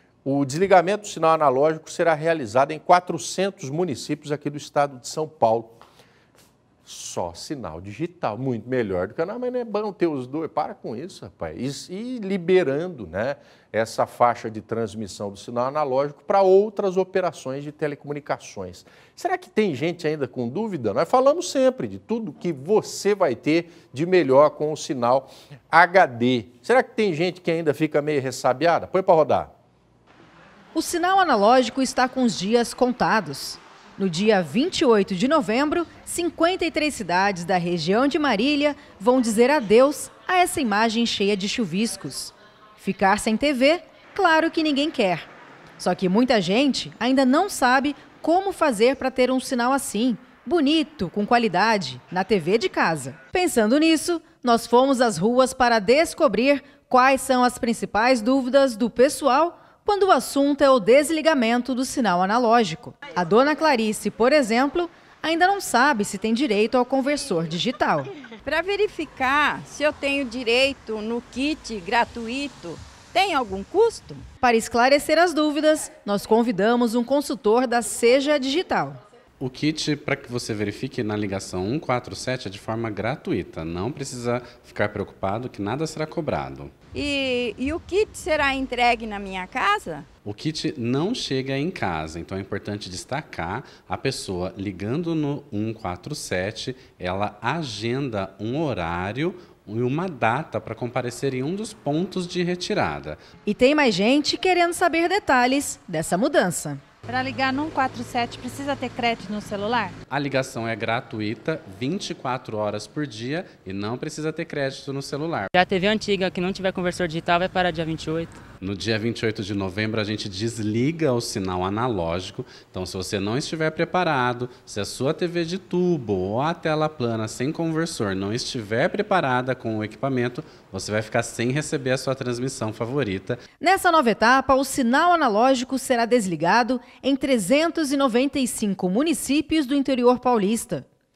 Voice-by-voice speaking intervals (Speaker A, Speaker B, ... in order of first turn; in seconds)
Speaker A: 0.2-5.8, 6.8-29.5
Speaker B: 30.7-68.1, 74.4-79.0, 103.5-106.8, 133.6-140.9
Speaker C: 68.5-74.3, 86.9-90.1
Speaker D: 79.4-86.7, 90.2-103.2, 110.1-115.5, 118.6-133.4
Speaker E: 107.1-110.0
Speaker F: 115.5-118.4